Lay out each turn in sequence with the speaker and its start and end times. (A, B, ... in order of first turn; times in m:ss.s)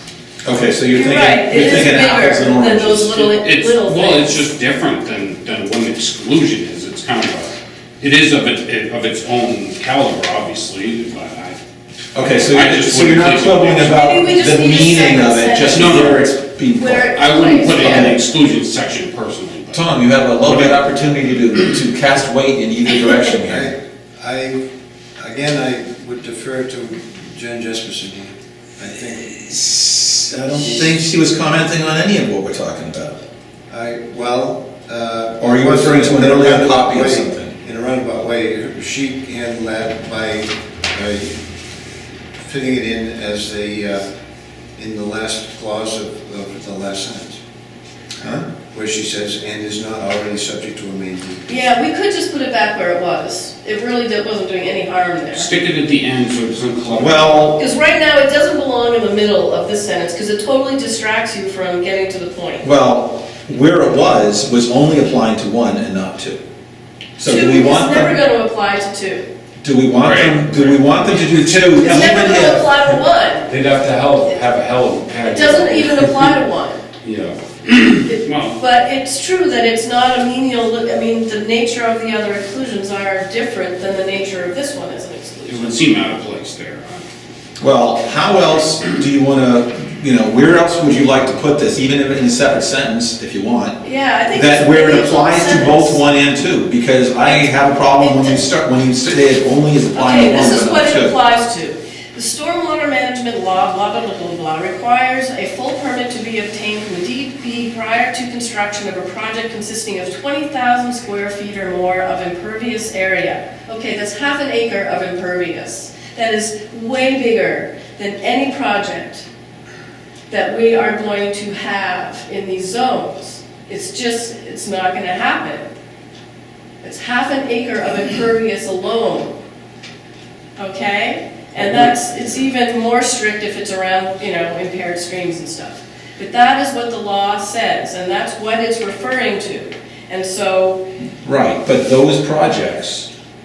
0:00.4-0:03.3 A
0:00.9-0:04.4 B
0:03.2-0:11.6 C
0:12.1-0:18.2 A
0:12.2-0:14.0 C
0:13.8-0:16.2 B
0:15.7-0:16.3 C
0:16.8-0:18.1 B
0:17.1-0:20.9 C
0:19.7-0:23.7 A
0:23.3-0:24.6 D
0:25.2-0:29.4 D
0:29.2-0:33.2 A
0:30.6-0:30.9 D
0:33.7-0:41.4 D
0:35.4-0:37.5 A
0:42.4-0:44.0 D
0:44.8-0:47.4 D
0:48.2-0:48.5 A
0:48.7-0:51.5 D
0:51.5-0:55.5 B
0:55.3-0:57.6 C
0:57.0-0:57.6 A
0:57.6-1:02.7 B
1:02.6-1:06.4 A
1:07.2-1:08.2 A
1:07.2-1:09.2 B
1:09.6-1:13.0 A
1:10.0-1:11.6 C
1:11.8-1:13.5 B
1:13.5-1:16.3 C
1:15.2-1:16.8 B
1:17.0-1:18.6 C
1:18.0-1:25.8 B
1:25.4-1:27.0 C
1:27.6-1:41.2 A
1:33.8-1:36.0 B
1:37.2-1:38.4 B
1:39.9-1:59.2 B
2:00.3-2:05.7 B
2:06.8-2:09.3 B
2:10.6-2:20.8 B
2:21.2-2:23.1 A